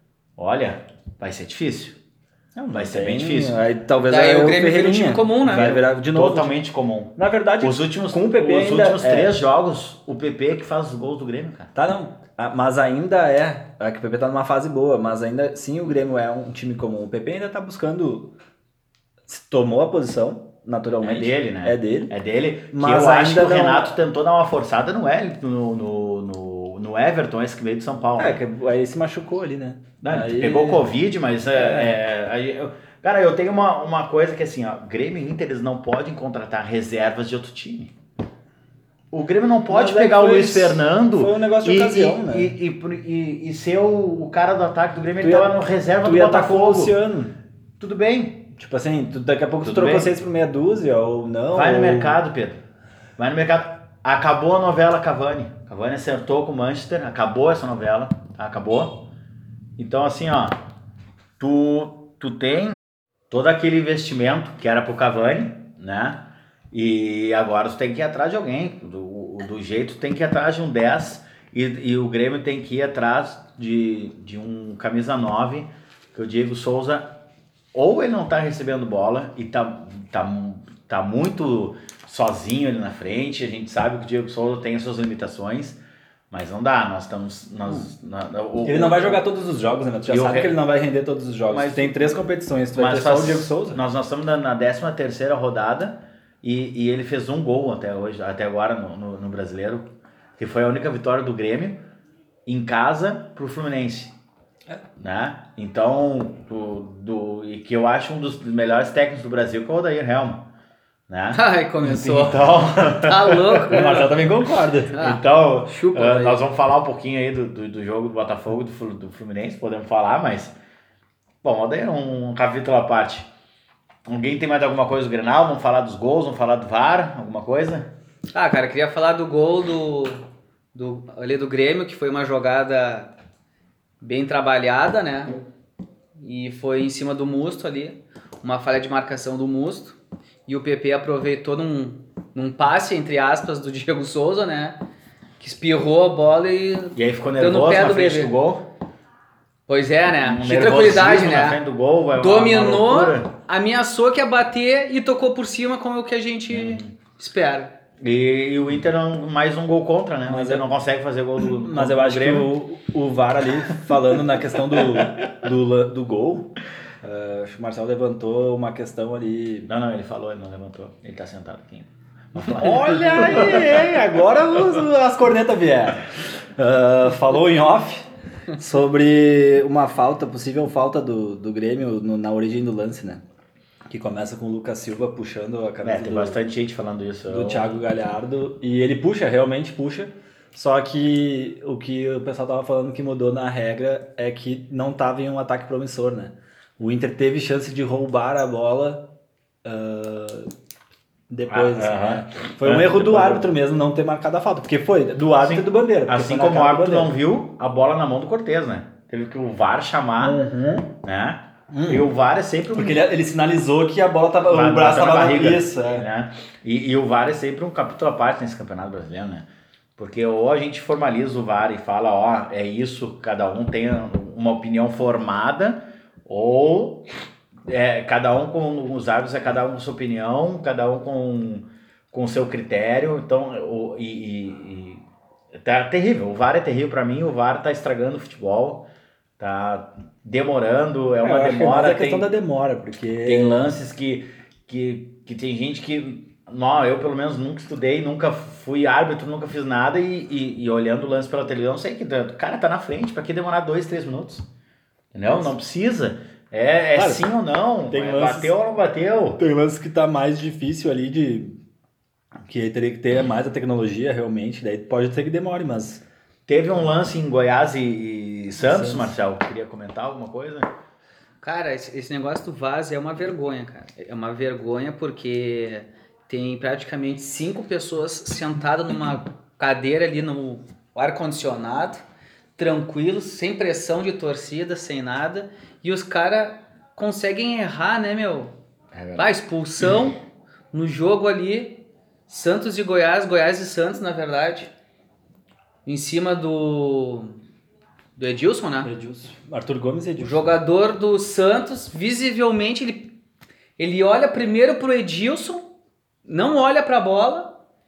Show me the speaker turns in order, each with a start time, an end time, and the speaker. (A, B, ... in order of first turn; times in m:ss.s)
0:00.4-0:02.0 A
0:02.6-0:06.6 B
0:02.7-0:03.6 A
0:04.0-0:05.8 C
0:05.4-0:11.7 A
0:07.2-0:09.4 B
0:11.8-0:18.3 B
0:19.3-0:22.1 B
0:21.0-0:28.4 A
0:22.7-0:23.9 B
0:28.2-0:30.9 B
0:30.0-0:37.9 A
0:31.5-0:32.0 B
0:39.1-0:46.9 A
0:39.7-0:42.6 B
0:45.2-0:47.3 B
0:47.8-0:48.5 A
0:48.6-0:52.2 B
0:49.6-0:50.1 A
0:51.5-0:52.6 A
0:53.2-0:59.1 A
0:59.8-1:00.6 A
1:01.4-1:02.8 A
1:03.3-1:17.2 A
1:17.7-1:25.8 A
1:26.3-1:29.3 A
1:28.6-1:33.8 B
1:30.1-1:30.6 A
1:31.5-1:32.2 A
1:32.8-1:39.9 A
1:40.4-1:41.8 A
1:42.5-1:44.1 A
1:45.0-1:50.5 A
1:51.1-1:54.3 A
1:51.3-1:54.1 C
1:53.7-1:55.0 B
1:54.9-1:56.4 C
1:54.9-2:00.6 A
2:01.4-2:03.3 A
2:04.1-2:07.9 A
2:08.3-2:13.1 C
2:14.0-2:15.4 C
2:16.2-2:20.0 C
2:20.5-2:24.8 C
2:25.4-2:28.3 C
2:27.0-2:28.7 A
2:29.7-2:31.6 C
2:30.2-2:33.3 A
2:32.2-2:37.7 C
2:36.5-2:36.9 A
2:38.0-2:42.5 A
2:40.3-2:40.7 B
2:41.6-2:49.7 B
2:49.7-2:53.9 A
2:52.5-3:03.2 B
3:03.9-3:06.4 B
3:05.8-3:07.8 A
3:07.3-3:19.1 B
3:19.6-3:20.5 B
3:21.3-3:27.1 B
3:21.5-3:23.5 A
3:25.4-3:30.4 A
3:30.2-3:30.9 B
3:31.0-3:33.1 A
3:31.7-3:32.1 B
3:32.8-3:36.1 B
3:34.5-3:47.1 A
3:47.7-3:55.0 A
3:55.6-3:58.9 A
3:59.4-4:02.3 A
4:01.2-4:03.7 B
4:03.2-4:14.5 A
4:15.1-4:19.4 A
4:17.0-4:17.3 B
4:17.9-4:18.5 B
4:19.4-4:21.6 B
4:22.5-4:26.0 B
4:26.5-4:30.7 A
4:28.6-4:29.1 B
4:31.4-4:42.0 C
4:42.6-4:48.5 C
4:48.9-4:49.3 A
4:49.2-4:50.2 C
4:50.7-4:54.7 C
4:55.9-4:57.4 C
4:58.2-4:58.9 C
4:58.8-5:00.6 B
5:00.2-5:03.1 C
5:03.8-5:05.6 C
5:06.2-5:07.6 C